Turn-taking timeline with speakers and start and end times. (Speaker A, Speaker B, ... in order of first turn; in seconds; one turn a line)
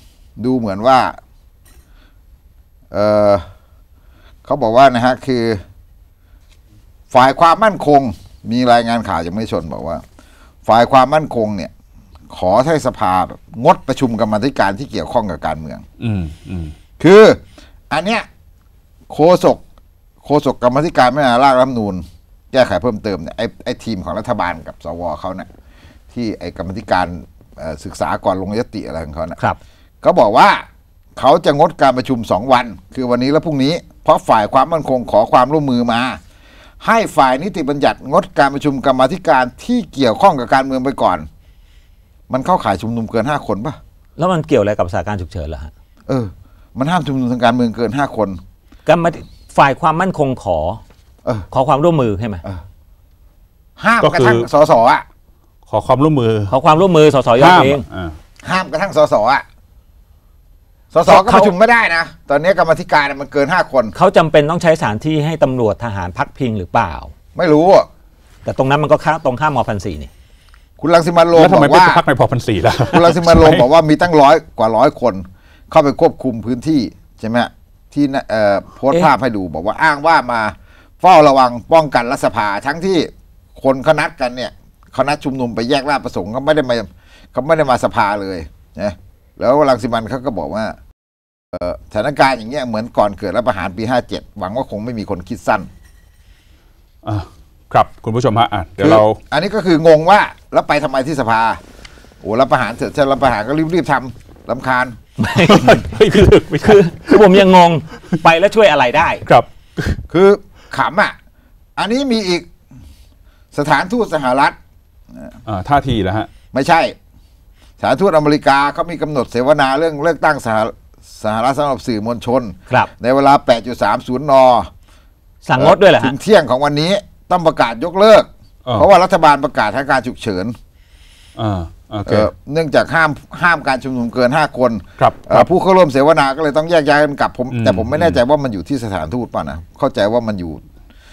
Speaker A: 0.4-1.1
Speaker A: 2.9-3.5
Speaker A: 4.4-5.6
Speaker A: 7.1-10.0
Speaker A: 10.6-11.7
Speaker A: 12.3-15.8
Speaker B: 16.0-16.7
Speaker A: 17.0-17.4
Speaker A: 17.9-18.3
Speaker A: 19.1-19.6
Speaker A: 20.2-25.5
Speaker A: 26.1-29.4
Speaker A: 30.0-30.6
Speaker A: 31.1-36.2
Speaker A: 36.8-41.3
Speaker A: 42.3-43.8
Speaker C: 44.2-45.7
Speaker A: 46.1-48.4
Speaker C: 48.9-50.8
Speaker C: 51.5-52.4
Speaker A: 53.8-55.0
Speaker B: 54.0-54.5
Speaker B: 55.7-56.5
Speaker C: 56.5-57.8
Speaker B: 57.4-58.1
Speaker A: 58.4-59.4
Speaker A: 60.9-63.9
Speaker C: 61.0-61.5
Speaker C: 63.9-67.1
Speaker A: 67.3-67.9
Speaker C: 68.4-70.1
Speaker A: 70.8-72.0
Speaker B: 71.3-73.7
Speaker A: 72.9-90.8
Speaker A: 91.5-95.7
Speaker B: 97.0-99.2
Speaker A: 98.8-101.6
Speaker A: 102.2-105.0
Speaker C: 105.2-109.2
Speaker B: 105.4-107.5
Speaker B: 109.2-110.0
Speaker A: 110.1-111.1
Speaker A: 111.8-112.5
Speaker A: 113.5-114.5
Speaker B: 115.4-116.3
Speaker A: 116.5-117.0
Speaker A: 117.8-124.7
Speaker C: 125.4-126.1
Speaker A: 125.6-130.5
Speaker B: 131.3-132.3
Speaker A: 132.1-140.6
Speaker B: 135.0-135.5
Speaker B: 137.5-138.2